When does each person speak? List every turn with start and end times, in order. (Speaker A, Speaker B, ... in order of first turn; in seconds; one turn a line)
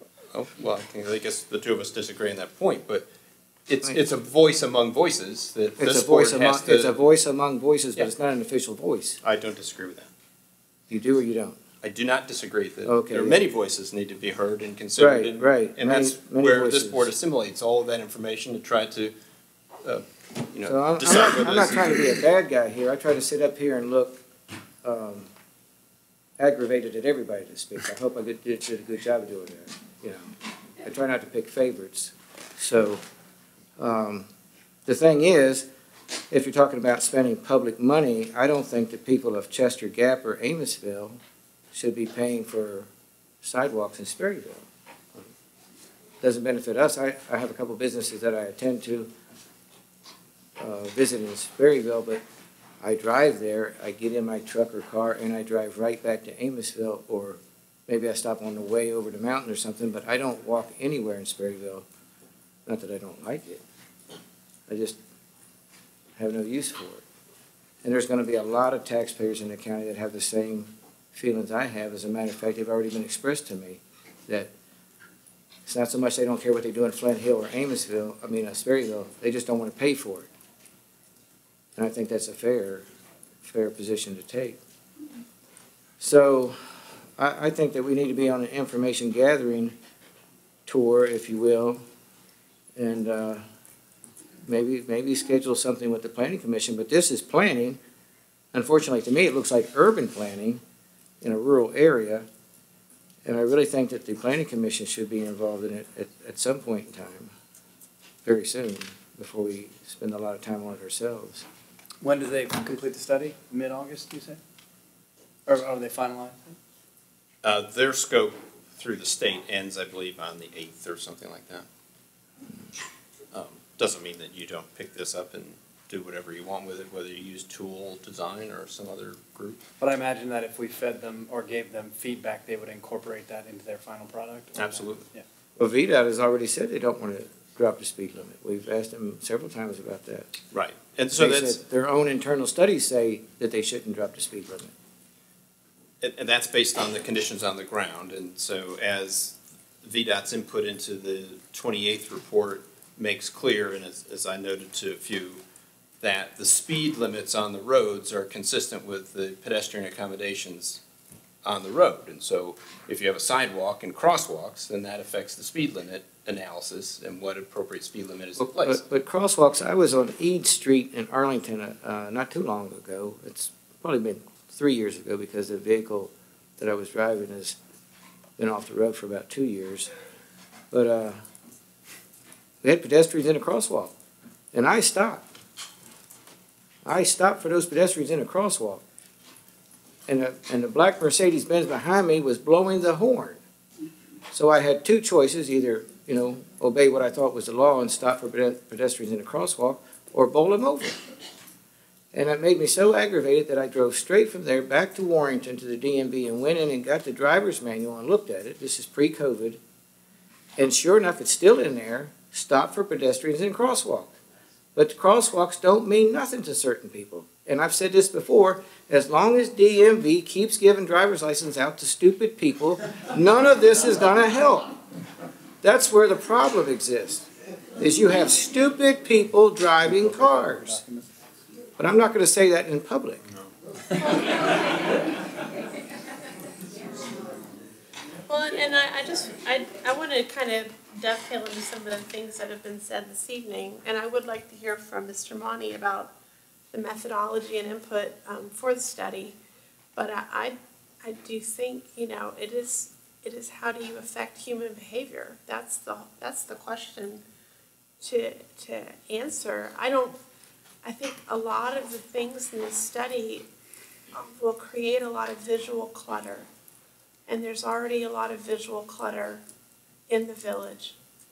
Speaker A: 0.3-3.1
Speaker A: 3.7-6.9
Speaker B: 5.8-9.2
Speaker A: 9.2-10.1
Speaker B: 10.9-11.6
Speaker A: 11.8-19.1
Speaker B: 12.9-13.4
Speaker B: 15.0-17.1
Speaker A: 19.8-22.2
Speaker B: 20.6-24.2
Speaker B: 24.8-25.3
Speaker B: 26.4-33.0
Speaker B: 33.8-34.3
Speaker B: 34.9-35.7
Speaker B: 36.3-41.2
Speaker B: 41.7-42.9
Speaker B: 43.4-45.3
Speaker B: 46.2-49.1
Speaker B: 50.6-52.2
Speaker B: 52.8-61.9
Speaker B: 62.7-63.6
Speaker B: 64.7-65.0
Speaker B: 66.2-67.0
Speaker B: 67.8-74.5
Speaker B: 75.7-80.3
Speaker B: 81.8-82.9
Speaker B: 83.4-84.6
Speaker B: 86.0-89.8
Speaker B: 90.7-91.8
Speaker B: 92.8-93.5
Speaker B: 94.5-97.8
Speaker B: 98.5-100.6
Speaker B: 101.2-102.3
Speaker B: 103.2-107.3
Speaker B: 108.2-111.5
Speaker C: 112.0-114.4
Speaker C: 115.5-116.6
Speaker A: 117.4-121.7
Speaker A: 123.3-129.6
Speaker C: 129.8-135.2
Speaker A: 134.6-135.1
Speaker B: 135.6-140.3
Speaker A: 140.5-141.6
Speaker B: 141.1-144.7
Speaker A: 146.0-155.4
Speaker A: 156.0-160.8
Speaker A: 161.4-168.8
Speaker B: 168.4-177.6
Speaker B: 178.4-179.9
Speaker B: 180.7-181.2
Speaker B: 182.6-183.9
Speaker B: 184.5-185.3
Speaker B: 186.8-188.8
Speaker B: 190.1-193.4
Speaker B: 194.3-201.0
Speaker B: 202.1-209.6
Speaker B: 210.6-214.2
Speaker B: 214.8-224.8
Speaker B: 225.6-230.8
Speaker C: 229.8-231.1
Speaker B: 231.8-233.2
Speaker D: 238.3-246.1
Speaker D: 246.7-249.4
Speaker D: 250.0-257.2
Speaker D: 258.0-260.2
Speaker D: 260.8-263.5
Speaker D: 264.1-266.5
Speaker D: 267.3-269.4
Speaker D: 270.1-271.0